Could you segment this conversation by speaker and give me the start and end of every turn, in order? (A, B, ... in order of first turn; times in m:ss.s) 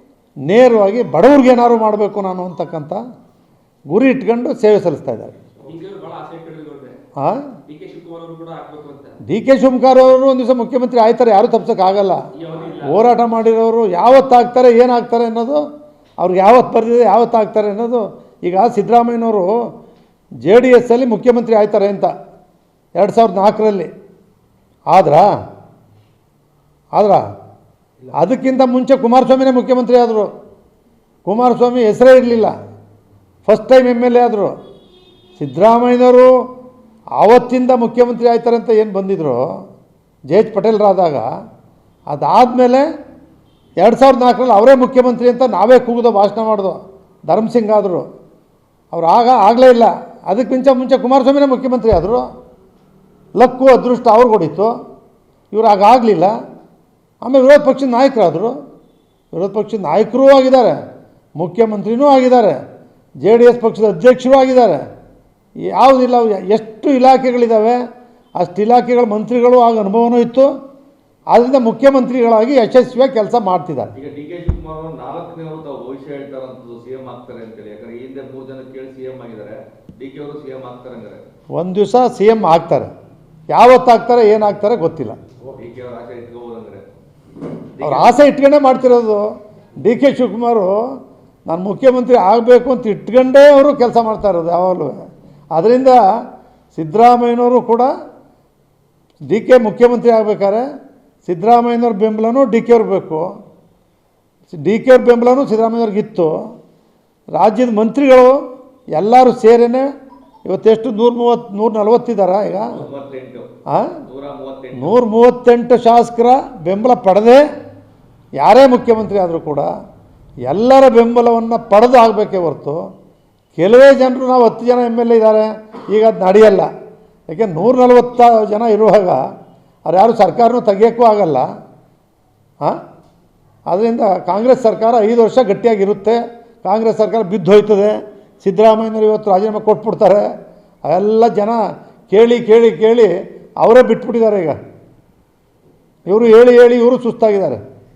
0:00.5-0:03.0 A
0:03.9-0:05.4 A
0:05.6-0:07.0 B
0:07.2-0:07.4 A
0:07.7-0:09.2 B
0:09.3-0:12.2 A
0:12.4-0:13.0 B
0:12.8-0:15.6 A
0:16.2-0:19.5 A
0:20.4-0:22.1 A
0:23.0-0:23.9 A
0:24.9-0:25.3 A
0:27.0-0:27.2 A
0:28.2-0:30.3 A
0:31.2-0:32.5 A
0:33.5-0:34.5 A
0:35.4-0:36.3 A
0:37.2-0:39.4 A
0:40.3-0:41.3 A
0:42.1-0:42.9 A
0:43.8-0:48.1 A
0:48.9-0:52.2 A
0:53.4-0:54.7 A
0:55.5-0:56.3 A
0:57.2-0:58.5 A
0:59.3-1:00.8 A
1:01.4-1:02.6 A
1:03.2-1:04.8 A
1:05.7-1:07.8 A
1:08.4-1:10.5 A
1:11.3-1:13.9 A
1:14.0-1:21.2 C
1:21.6-1:22.9 A
1:23.5-1:25.2 A
1:25.5-1:26.8 C
1:27.8-1:28.3 C
1:27.8-1:29.2 A
1:29.8-1:30.8 A
1:31.5-1:35.0 A
1:35.5-1:36.0 A
1:36.7-1:37.9 A
1:39.3-1:40.6 A
1:41.2-1:43.3 A
1:44.5-1:46.3 A
1:47.4-1:48.4 A
1:48.9-1:49.8 A
1:50.5-1:52.8 A
1:52.7-1:53.5 C
1:53.7-1:54.0 A
1:54.1-1:55.0 C
1:54.8-1:57.4 A
1:58.4-1:59.7 A
2:00.5-2:02.8 A
2:03.6-2:06.7 A
2:07.3-2:09.2 A
2:09.9-2:11.5 A
2:13.7-2:20.2 A
2:20.9-2:24.6 A
2:26.1-2:27.6 A